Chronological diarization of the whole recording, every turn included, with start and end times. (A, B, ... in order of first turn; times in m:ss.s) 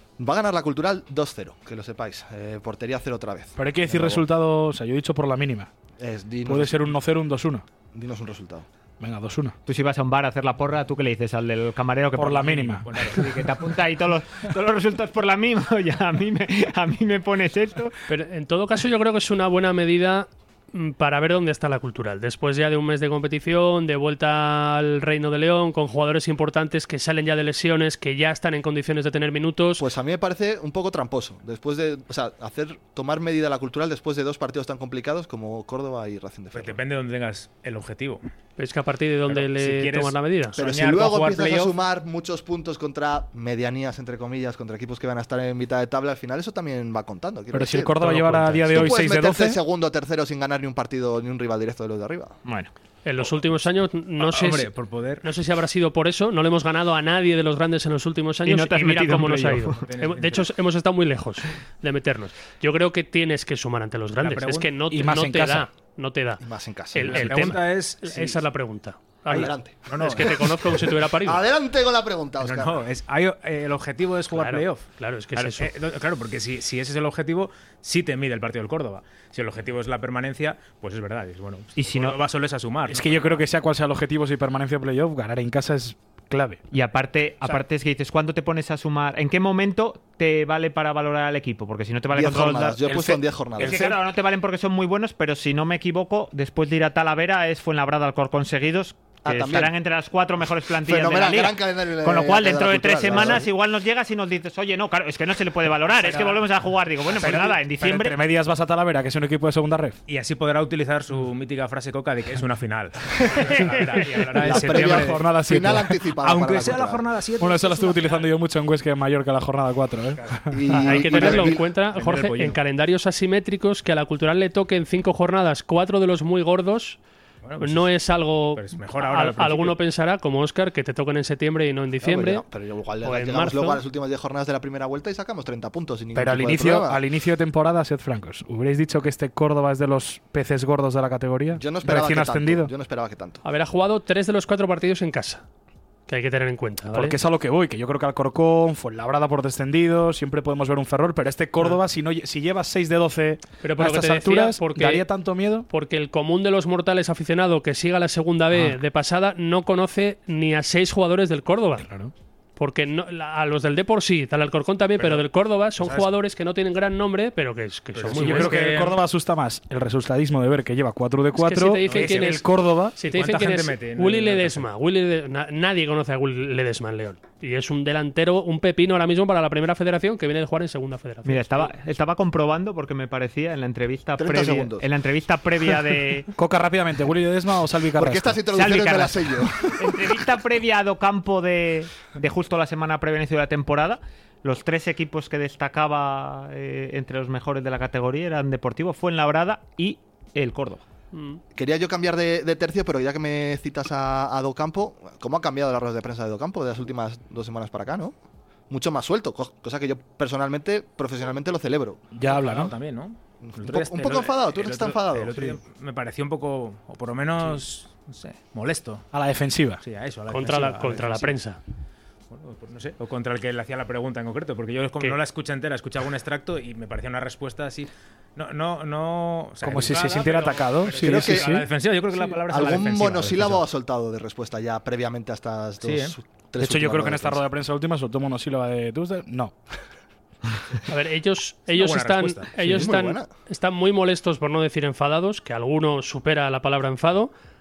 0:00.2-0:04.2 A
0:03.6-0:05.7 B
0:06.0-0:06.8 A
0:06.4-0:07.6 B
0:07.9-0:08.7 A
0:09.0-0:09.6 B
0:09.7-0:17.9 C
0:12.2-0:12.8 B
0:12.2-0:13.5 D
0:18.1-0:29.8 E
0:29.8-0:36.8 A
0:36.5-0:38.2 D
0:38.6-0:40.6 E
0:39.3-0:41.8 D
0:40.6-0:52.4 A
0:47.5-0:49.6 B
0:48.2-0:49.0 D
0:52.4-0:52.7 C
0:53.0-1:11.4 E
0:54.2-0:55.3 D
0:58.5-0:59.8 C
0:59.3-1:00.5 D
1:04.2-1:04.7 D
1:04.9-1:05.7 B
1:06.4-1:07.3 A
1:07.1-1:08.4 D
1:09.3-1:10.5 D
1:09.3-1:12.8 A
1:12.4-1:14.8 D
1:14.3-1:15.7 E
1:15.4-1:23.4 D
1:21.8-1:22.2 C
1:22.9-1:26.6 B
1:26.7-1:48.2 C
1:32.1-1:34.0 A
1:39.2-1:39.7 A
1:40.8-1:43.5 A
1:46.0-1:46.4 B
1:47.1-1:50.0 B
1:50.1-1:55.3 D
1:54.4-1:57.0 A
1:54.5-1:55.9 B
1:56.2-1:58.3 D
1:57.4-2:00.6 B
2:00.2-2:02.6 D
2:00.5-2:01.6 A
2:00.7-2:07.0 E
2:07.4-2:07.9 D
2:07.6-2:12.4 E
2:08.6-2:09.8 D
2:12.0-2:17.0 A
2:13.0-2:13.8 E
2:16.1-2:22.7 B
2:21.5-2:23.4 A
2:23.4-2:25.4 E
2:26.1-2:27.2 E
2:26.9-2:35.7 B
2:33.6-2:35.1 E
2:35.7-2:41.9 E
2:38.5-2:38.8 B
2:41.8-2:42.1 B
2:42.6-2:48.6 E
2:45.0-2:45.2 D
2:45.8-2:46.1 D
2:48.0-2:49.0 D
2:48.1-2:53.0 B
2:51.4-2:52.4 E
2:51.8-2:52.4 D
2:53.0-3:01.7 E
2:53.1-2:54.7 D
3:01.2-3:06.3 C
3:04.2-3:04.9 A
3:06.4-3:08.4 B
3:08.0-3:10.2 A
3:08.5-3:20.8 C
3:21.1-3:21.4 E
3:21.6-3:28.2 A
3:28.7-3:32.0 A
3:32.1-3:32.7 B
3:32.3-3:39.1 D
3:33.4-3:35.6 A
3:39.1-3:39.8 B
3:39.8-3:41.4 D
3:40.3-3:41.6 E
3:42.3-3:53.6 D
3:49.6-3:51.7 B
3:51.0-3:51.6 A
3:52.5-3:57.4 A
3:55.8-3:56.2 D
3:56.6-3:59.6 B
4:00.9-4:07.3 E
4:01.7-4:02.9 D
4:02.6-4:03.3 A